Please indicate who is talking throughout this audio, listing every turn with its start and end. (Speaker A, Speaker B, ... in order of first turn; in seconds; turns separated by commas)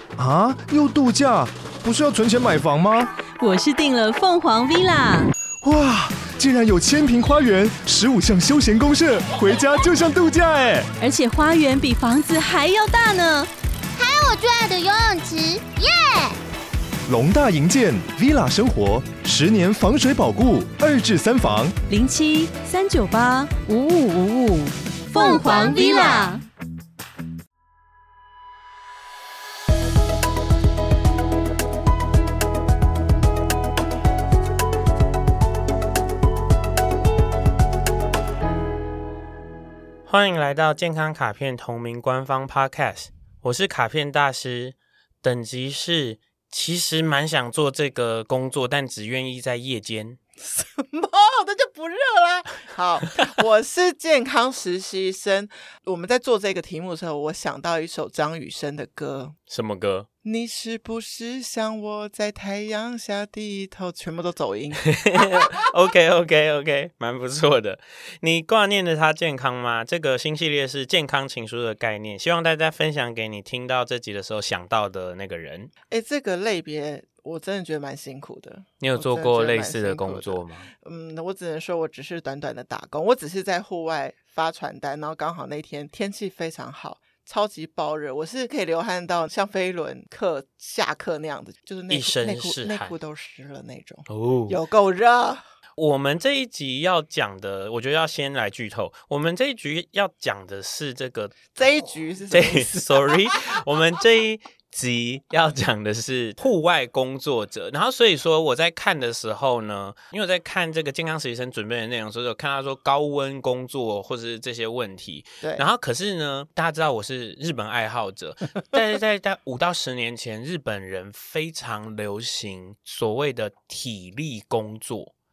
Speaker A: 0.2-3.1, Speaker B: 3.4-5.3, Speaker A: 5.6-10.9, Speaker B: 11.0-13.5, Speaker C: 13.9-16.4, Speaker A: 17.1-21.7, Speaker B: 21.9-26.4, Speaker C: 25.2-26.3, Speaker D: 40.1-50.2, Speaker E: 50.4-59.3, Speaker D: 59.5-60.1, Speaker E: 60.2-65.5, Speaker D: 64.8-75.7, Speaker E: 75.9-95.4, Speaker D: 78.8-80.7, Speaker D: 91.9-92.9, Speaker D: 94.1-94.6, Speaker D: 95.8-101.5, Speaker E: 101.5-103.1, Speaker D: 102.3-125.1